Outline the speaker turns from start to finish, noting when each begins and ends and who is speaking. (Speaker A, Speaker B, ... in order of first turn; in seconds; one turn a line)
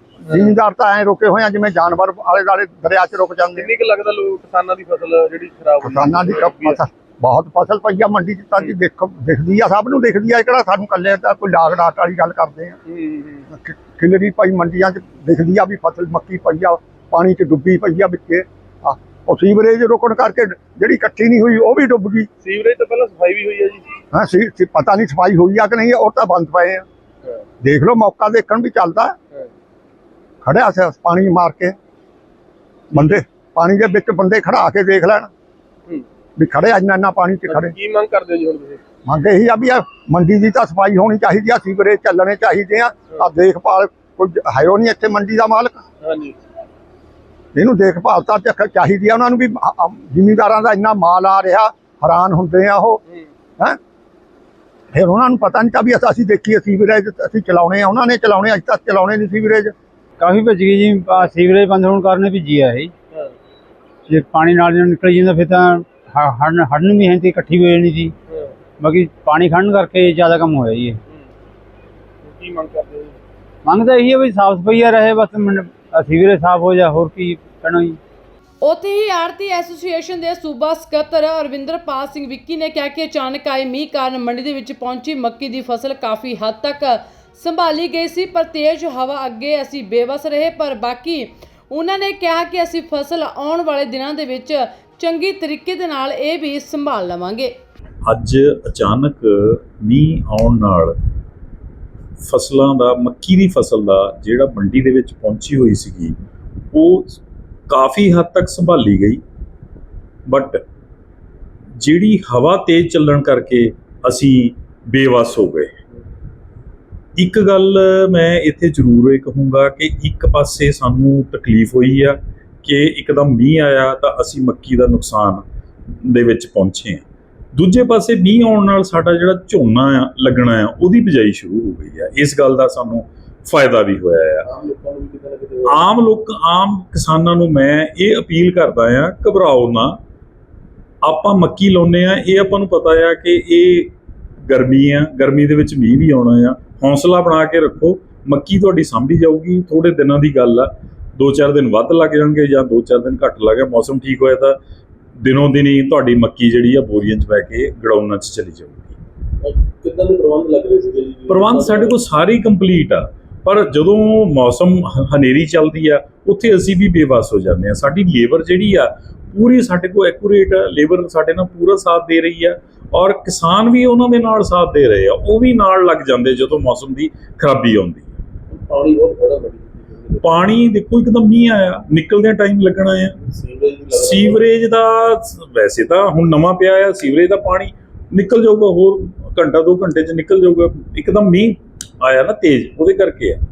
Speaker A: 0.2-3.7
Speaker B: 3.5-6.8
Speaker A: 5.8-12.8
Speaker B: 12.9-13.4
Speaker A: 13.5-22.3
Speaker B: 22.4-23.9
Speaker A: 24.1-26.9
Speaker A: 27.6-29.1
Speaker A: 30.4-31.7
Speaker A: 32.9-35.3
Speaker A: 36.4-37.7
Speaker B: 37.5-38.8
Speaker A: 39.0-45.8
Speaker B: 46.0-46.4
Speaker A: 47.5-53.0
Speaker A: 54.9-59.7
Speaker C: 60.2-62.9
Speaker C: 64.1-68.1
Speaker C: 68.8-71.0
Speaker B: 72.2-73.2
Speaker C: 73.6-78.0
Speaker D: 78.6-97.5
Speaker E: 98.1-100.9
Speaker E: 102.2-106.1
Speaker E: 106.7-109.2
Speaker E: 110.3-110.6
Speaker E: 111.8-115.7
Speaker E: 117.2-125.4
Speaker E: 126.0-134.4
Speaker B: 134.4-135.9
Speaker E: 135.7-140.0
Speaker E: 141.0-143.9
Speaker E: 144.5-154.6
Speaker E: 155.2-159.0
Speaker B: 159.4-161.9
Speaker E: 161.3-178.1
Speaker B: 178.5-180.4
Speaker E: 180.2-183.2
Speaker B: 183.2-184.5
Speaker E: 183.9-193.4